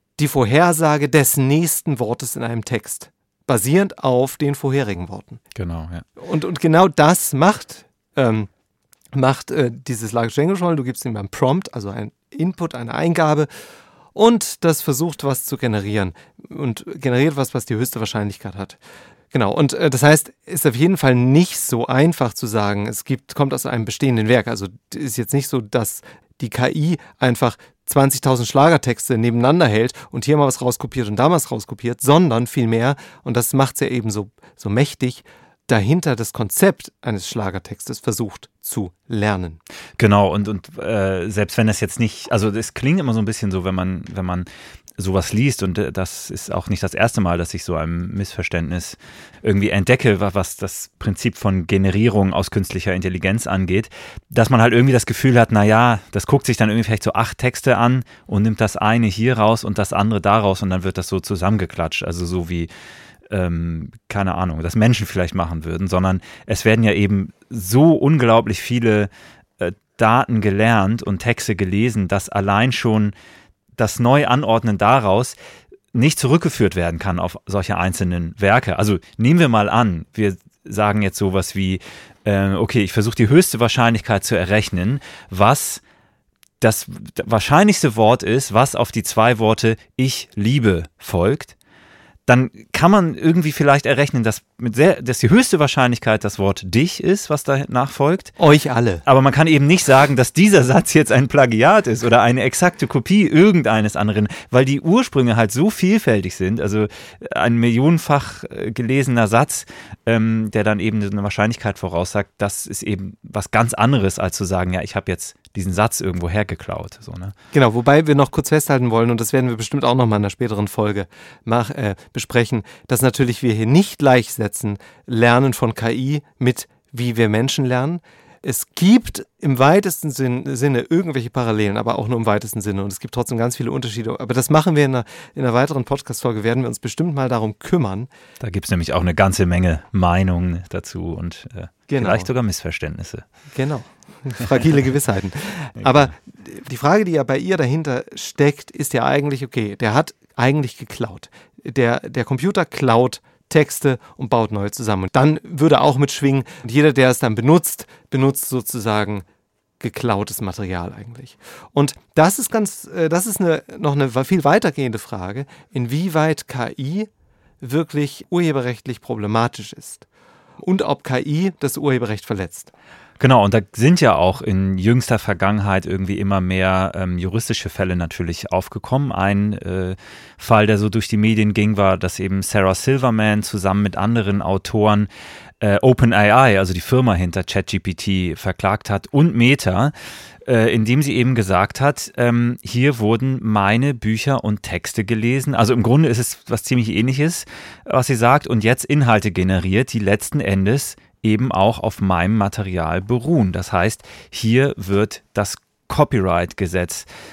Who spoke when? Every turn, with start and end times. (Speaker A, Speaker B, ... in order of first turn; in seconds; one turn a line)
Speaker A: 0.2-5.4
Speaker B: 5.5-6.0
Speaker A: 6.2-8.5
Speaker A: 9.1-13.5
Speaker A: 14.1-18.8
Speaker A: 19.3-39.6
Speaker B: 40.0-62.7
Speaker B: 63.3-73.1
Speaker B: 73.8-75.3
Speaker B: 75.9-85.8
Speaker B: 86.6-91.5
Speaker B: 92.3-98.3
Speaker A: 98.4-99.0
Speaker B: 99.0-117.3
Speaker A: 117.5-138.1
Speaker B: 138.4-143.2
Speaker A: 141.9-142.3
Speaker A: 143.5-159.2
Speaker B: 145.8-146.1
Speaker A: 159.8-167.1
Speaker A: 167.6-170.1
Speaker A: 170.6-172.7
Speaker B: 173.2-185.1
Speaker B: 185.6-189.9
Speaker B: 190.4-207.1